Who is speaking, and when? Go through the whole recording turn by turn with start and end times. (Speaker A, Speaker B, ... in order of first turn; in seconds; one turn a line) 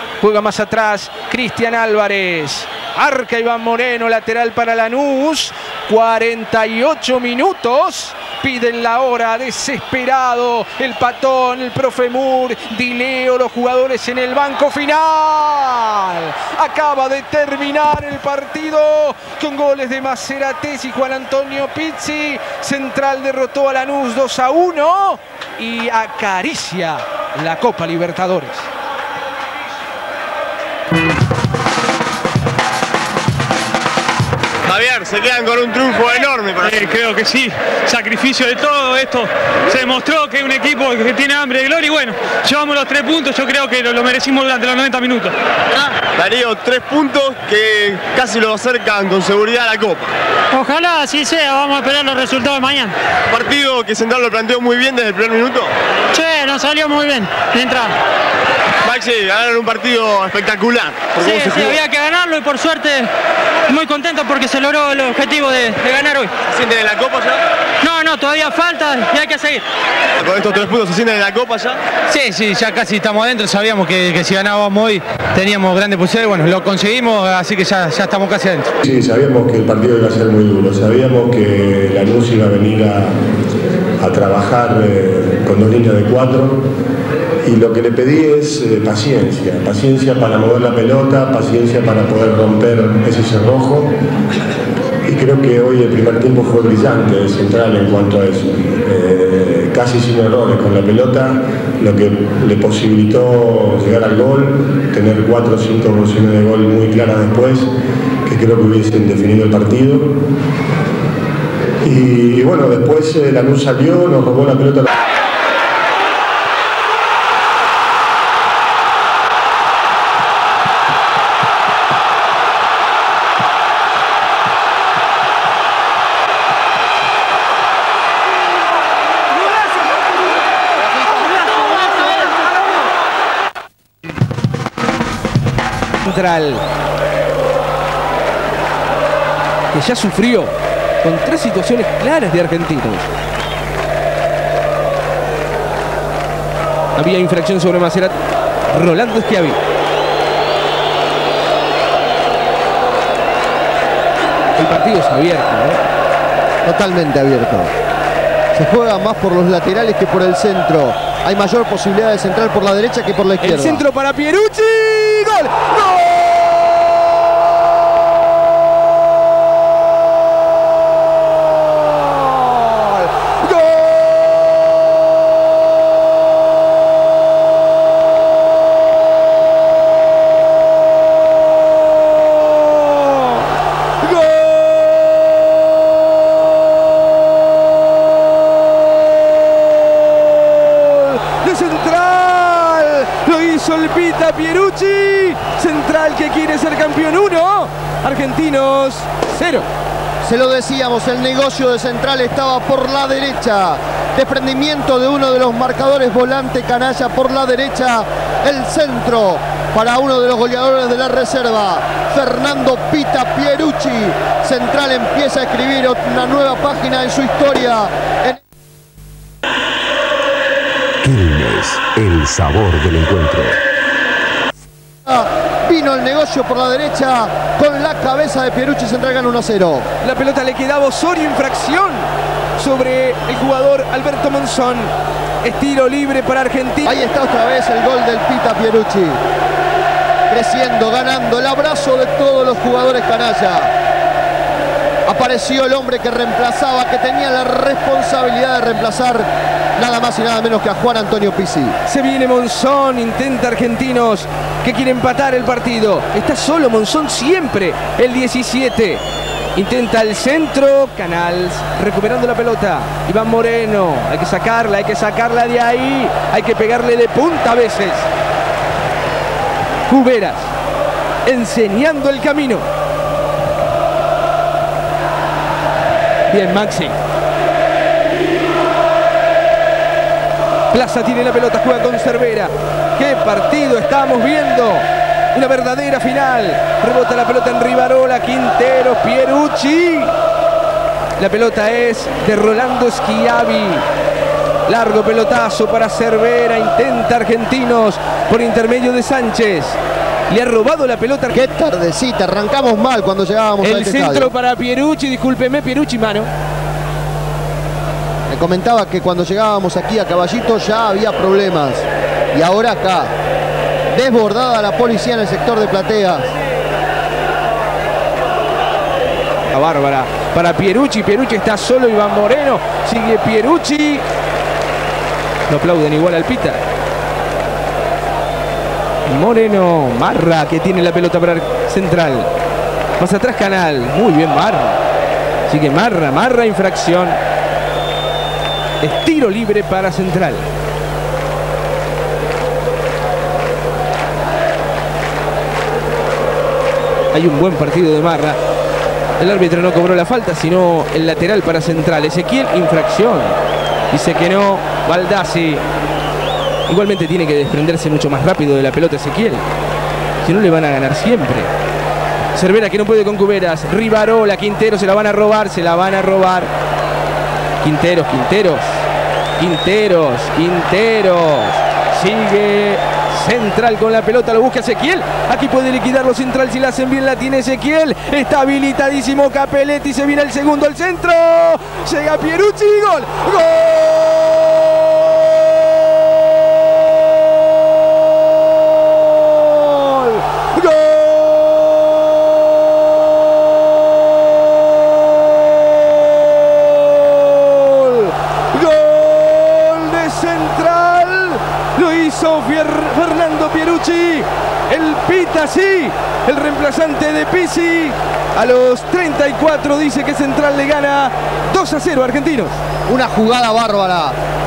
Speaker A: 0.2-28.7
Speaker B: 34.6-37.0
Speaker C: 36.6-45.3
Speaker B: 46.1-50.1
Speaker D: 50.5-52.9
Speaker B: 53.3-55.7
Speaker D: 56.1-57.9
Speaker B: 58.8-61.8
Speaker D: 61.1-63.1
Speaker D: 63.7-66.3
Speaker B: 66.5-67.4
Speaker D: 67.8-69.6
Speaker B: 70.2-71.8
Speaker E: 72.1-78.7
Speaker F: 78.8-83.1
Speaker F: 84.0-86.7
Speaker F: 87.4-93.9
Speaker F: 95.0-107.7
Speaker F: 108.2-110.2
Speaker F: 111.8-114.9
Speaker A: 136.0-136.6
Speaker A: 139.7-143.1
Speaker A: 146.9-148.1
Speaker A: 148.7-149.6
Speaker A: 154.6-155.8
Speaker G: 156.6-157.7
Speaker G: 158.5-163.8
Speaker A: 163.4-166.8
Speaker A: 172.4-174.2
Speaker A: 182.9-183.4
Speaker A: 184.0-185.2
Speaker A: 189.8-199.7
Speaker G: 200.2-218.4
Speaker H: 221.0-223.6
Speaker G: 225.1-229.9
Speaker A: 230.0-237.0
Speaker G: 236.8-239.2
Speaker G: 240.3-243.7
Speaker G: 245.1-251.8
Speaker A: 251.8-259.0
Speaker A: 259.6-268.1
Speaker A: 269.9-270.5
Speaker A: 271.2-272.7
Speaker A: 276.3-277.0
Speaker A: 280.7-290.1
Speaker A: 291.2-293.9
Speaker A: 294.7-299.8
Speaker A: 300.3-301.3
Speaker G: 301.3-304.3
Speaker A: 303.6-306.3
Speaker G: 308.3-313.1
Speaker G: 313.9-316.3
Speaker A: 319.5-324.0
Speaker A: 325.5-326.6
Speaker A: 329.1-332.3
Speaker A: 333.0-334.8
Speaker A: 335.5-337.2
Speaker A: 338.8-340.4
Speaker A: 347.1-348.4
Speaker A: 349.2-353.4
Speaker A: 353.9-355.6
Speaker A: 356.7-359.4
Speaker A: 360.2-361.5
Speaker A: 362.3-366.5
Speaker A: 367.6-368.8
Speaker A: 369.4-385.1
Speaker A: 389.2-391.9
Speaker A: 395.6-412.5
Speaker G: 412.9-414.1